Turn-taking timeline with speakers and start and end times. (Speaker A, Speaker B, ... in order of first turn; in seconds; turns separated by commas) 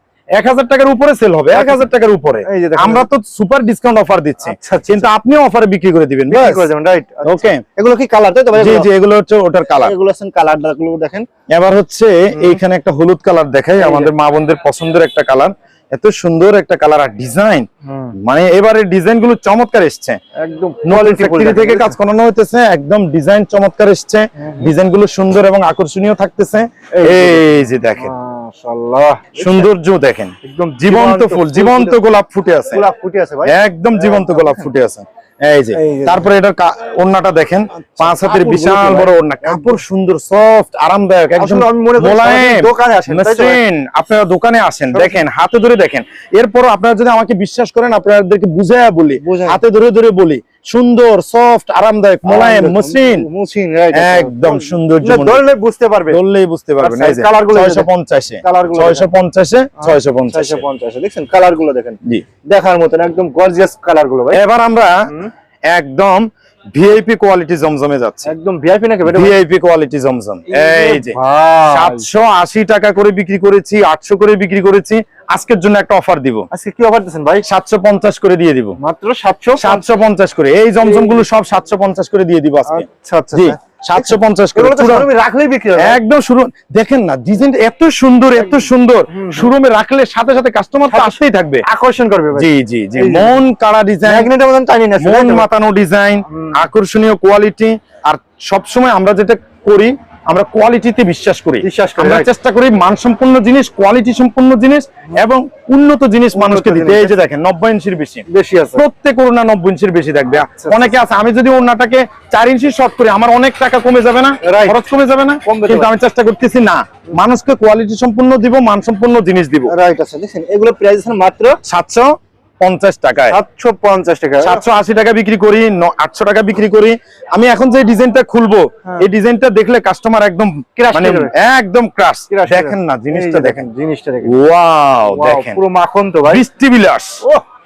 Speaker A: 0.4-6.7, Speaker B: 1.5-1.8, Speaker B: 2.4-3.1, Speaker B: 4.4-5.1, Speaker B: 6.3-8.9, Speaker A: 7.3-7.6, Speaker A: 8.6-9.9, Speaker B: 9.8-11.3, Speaker A: 11.5-17.7, Speaker B: 12.3-12.6, Speaker B: 13.8-14.1, Speaker B: 17.9-18.2, Speaker A: 18.2-20.2, Speaker B: 20.4-22.0, Speaker A: 20.9-28.1, Speaker B: 24.4-24.7, Speaker B: 26.9-27.5, Speaker B: 28.0-29.7, Speaker A: 29.4-32.9, Speaker B: 30.4-32.0, Speaker B: 32.7-34.7, Speaker A: 33.5-53.3, Speaker B: 35.7-36.3, Speaker B: 37.8-39.8, Speaker B: 41.4-43.6, Speaker B: 44.9-45.2, Speaker B: 49.2-49.6, Speaker B: 52.2-56.2, Speaker A: 53.9-55.4, Speaker A: 56.1-60.6, Speaker B: 56.8-57.9, Speaker B: 58.4-59.1, Speaker B: 59.8-64.4, Speaker A: 64.3-65.1, Speaker A: 65.7-68.3, Speaker B: 68.2-69.4, Speaker A: 69.1-76.5, Speaker B: 70.5-72.0, Speaker B: 76.5-77.5, Speaker A: 77.4-78.8, Speaker B: 78.8-79.8, Speaker A: 79.6-85.1, Speaker B: 80.8-81.2, Speaker B: 82.7-86.0, Speaker A: 85.8-91.7, Speaker B: 88.4-89.5, Speaker B: 90.9-93.4, Speaker A: 92.3-94.3, Speaker B: 94.0-95.5, Speaker A: 95.0-108.2, Speaker B: 96.3-96.6, Speaker B: 101.6-102.3, Speaker B: 106.3-107.2, Speaker B: 108.3-108.8, Speaker A: 108.8-119.7, Speaker B: 110.5-111.0, Speaker B: 114.4-114.8, Speaker B: 115.4-115.9, Speaker B: 119.7-121.6, Speaker A: 121.6-123.4, Speaker B: 123.3-124.6, Speaker A: 124.4-133.7, Speaker B: 130.8-131.3, Speaker B: 132.3-134.4, Speaker A: 134.2-135.6, Speaker B: 135.1-136.4, Speaker A: 136.2-137.2